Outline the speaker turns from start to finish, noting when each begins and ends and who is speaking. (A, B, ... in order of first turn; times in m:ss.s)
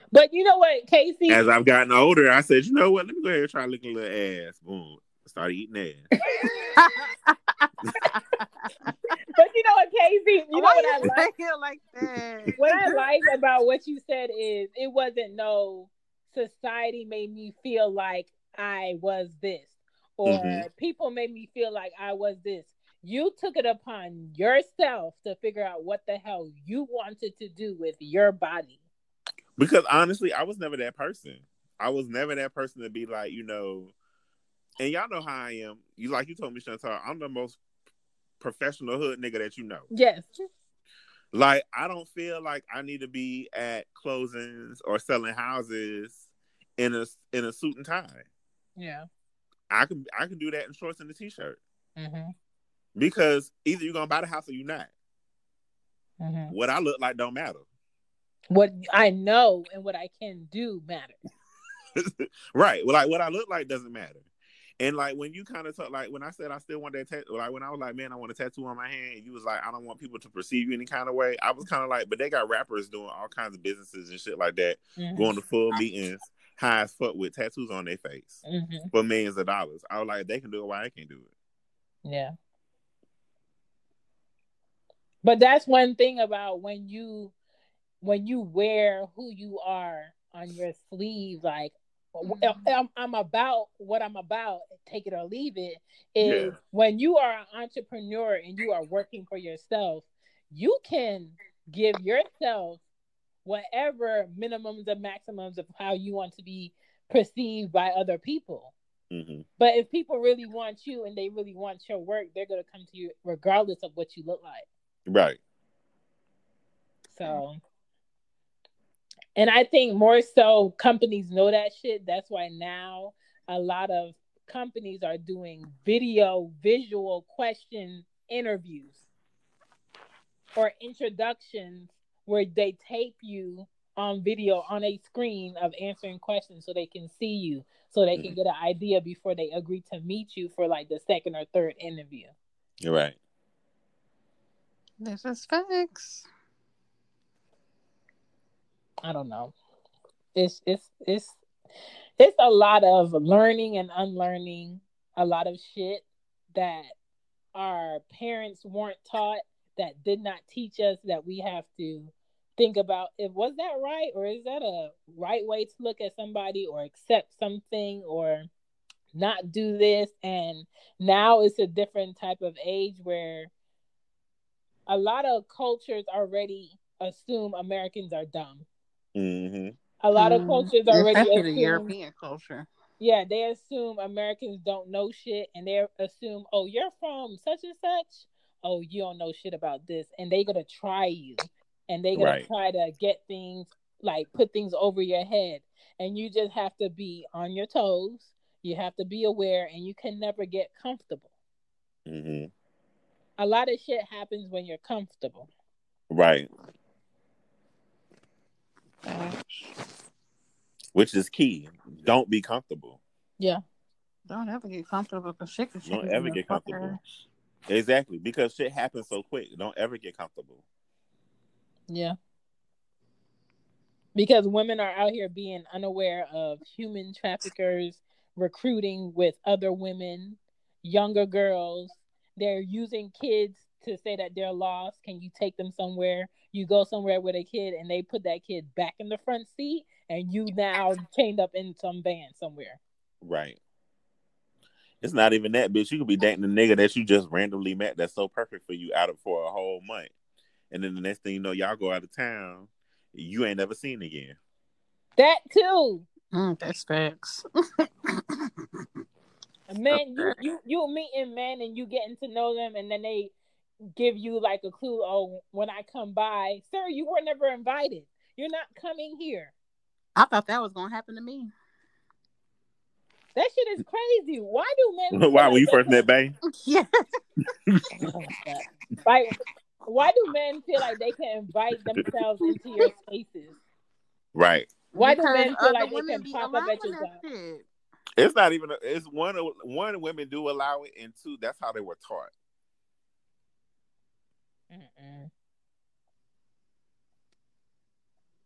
0:00.1-0:01.4 A
0:01.3-0:06.1 B
0:06.2-0:06.7 A
0:06.7-0:08.9 C
0:09.3-0:11.3 A
0:10.5-0:13.0 C
0:12.1-0:12.6 B
0:12.6-0:28.8 A
0:20.2-0:20.6 B
0:29.6-0:33.9 B
0:34.8-0:37.6 B
0:38.4-0:39.9 B
0:39.9-0:40.4 A
0:41.3-0:46.2 B
0:46.8-0:48.2 B
0:48.8-0:49.1 A
0:49.7-0:51.6 B
0:52.0-0:52.3 A
0:53.0-0:54.9 B
0:56.2-0:56.5 A
0:56.5-0:57.6 B
0:58.5-1:01.2 A
1:02.0-1:04.2 B
1:04.8-1:21.3 B
1:15.0-1:15.3 A
1:18.4-1:18.9 A
1:22.0-1:22.3 A
1:25.2-1:27.3 A
1:28.0-1:42.8 A
1:32.3-1:32.6 C
1:36.2-1:36.6 B
1:43.4-1:48.7 A
1:49.1-1:49.4 B
1:49.6-1:54.6 A
1:55.1-1:55.4 B
1:57.1-1:57.6 A
1:59.4-2:09.0 A
2:10.6-2:22.3 A
2:22.8-2:23.2 B
2:25.0-2:26.3 C
2:29.0-2:29.5 A
2:30.3-2:31.4 A
2:32.2-2:36.9 A
2:37.5-2:48.5 A
2:49.1-2:53.5 A
2:54.9-2:58.6 A
2:59.1-2:59.7 B
3:00.0-3:01.9 A
3:00.2-3:02.7 C
3:03.0-3:21.3 A
3:12.2-3:12.4 B
3:22.0-3:22.5 B
3:23.4-3:25.5 A
3:26.1-3:26.5 B
3:29.0-3:29.7 C
3:30.9-3:33.0 B
3:34.3-3:37.0 C
3:35.8-3:37.0 B
3:37.7-3:40.6 B
3:41.9-3:42.2 A
3:44.1-4:02.8 A
4:03.2-4:03.6 B
4:05.0-4:10.1 B
4:10.7-4:14.4 B
4:15.2-4:16.1 A
4:16.3-4:18.5 C
4:19.7-4:23.3 A
4:23.9-4:29.5 A
4:30.2-4:31.5 C
4:33.3-4:36.0 A
4:35.1-4:36.4 B
4:36.5-4:37.0 C
4:38.0-4:43.6 A
4:44.3-4:44.7 B
4:44.9-4:47.6 C
4:45.0-4:47.2 A
4:48.2-4:52.3 B
4:54.7-4:55.3 A